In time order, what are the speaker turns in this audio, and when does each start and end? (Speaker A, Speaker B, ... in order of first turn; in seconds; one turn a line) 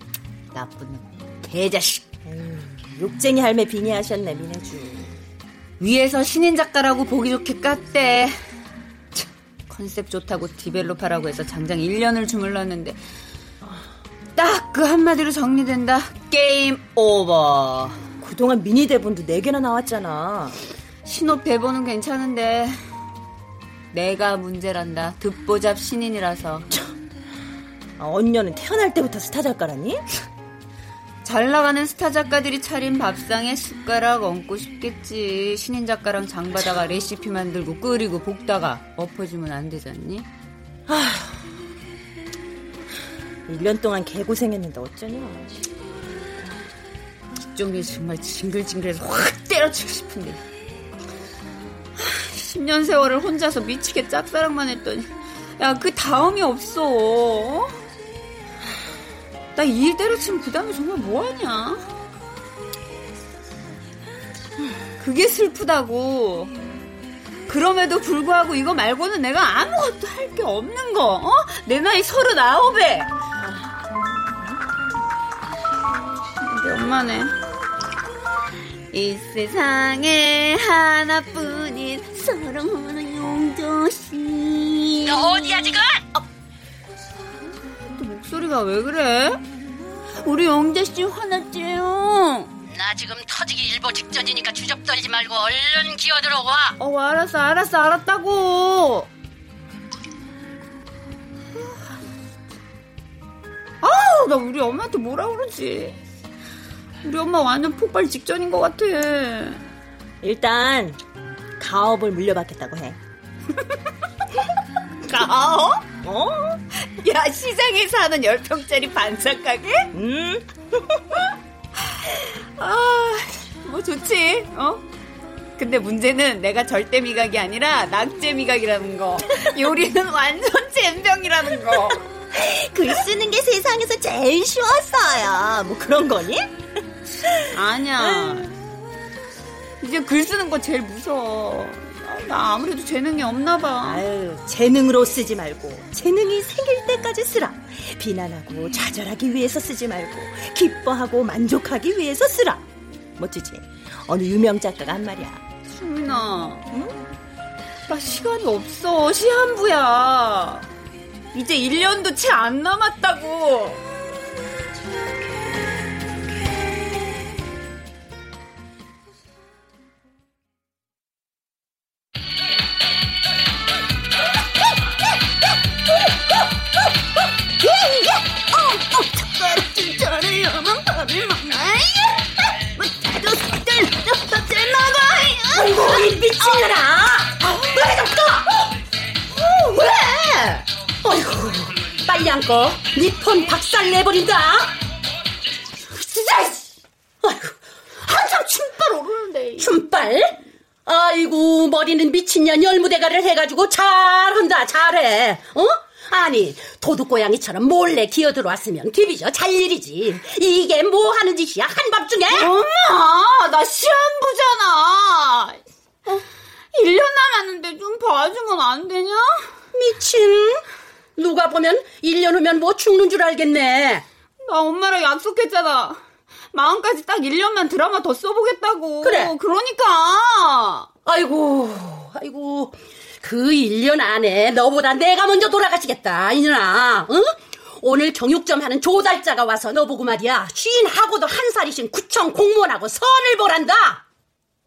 Speaker A: 0.5-2.0
Speaker B: 2.2-5.1
Speaker A: 5.8-8.4
Speaker A: 9.7-13.0
Speaker A: 14.3-18.0
Speaker B: 18.2-20.6
Speaker A: 21.0-22.8
Speaker A: 23.9-26.7
Speaker B: 28.0-30.0
Speaker A: 31.2-40.3
Speaker B: 40.9-41.2
Speaker B: 43.5-45.7
Speaker A: 47.5-50.4
Speaker A: 52.0-57.8
Speaker A: 59.5-61.9
Speaker A: 65.0-66.5
Speaker A: 67.5-73.1
Speaker A: 76.4-77.3
Speaker A: 78.9-85.5
Speaker C: 85.0-86.2
Speaker A: 87.9-89.4
Speaker A: 90.2-92.5
Speaker C: 92.7-96.8
Speaker A: 96.8-99.1
Speaker A: 103.8-106.0
Speaker A: 107.0-109.6
Speaker B: 110.2-111.0
Speaker B: 111.6-113.0
Speaker A: 115.0-115.8
Speaker B: 116.0-116.6
Speaker A: 117.0-119.9
Speaker B: 119.9-120.5
Speaker A: 122.6-124.8
Speaker A: 125.6-132.0
Speaker B: 132.3-136.5
Speaker A: 137.5-138.5
Speaker B: 138.0-138.5
Speaker A: 139.8-144.0
Speaker B: 143.8-152.6
Speaker B: 153.2-155.4
Speaker A: 155.7-156.6
Speaker B: 156.7-157.0
Speaker A: 157.9-160.7
Speaker A: 161.3-163.8
Speaker A: 178.7-182.2
Speaker A: 182.8-186.0
Speaker C: 185.5-188.6
Speaker C: 189.6-190.3
Speaker A: 189.8-190.6
Speaker C: 191.0-194.8
Speaker A: 196.1-196.6
Speaker C: 197.2-197.6
Speaker A: 198.0-199.8
Speaker C: 199.6-212.5
Speaker A: 212.3-219.5
Speaker C: 219.7-220.6
Speaker C: 221.2-224.1
Speaker A: 224.5-226.0
Speaker A: 226.5-230.9
Speaker C: 229.0-229.3
Speaker C: 231.1-244.0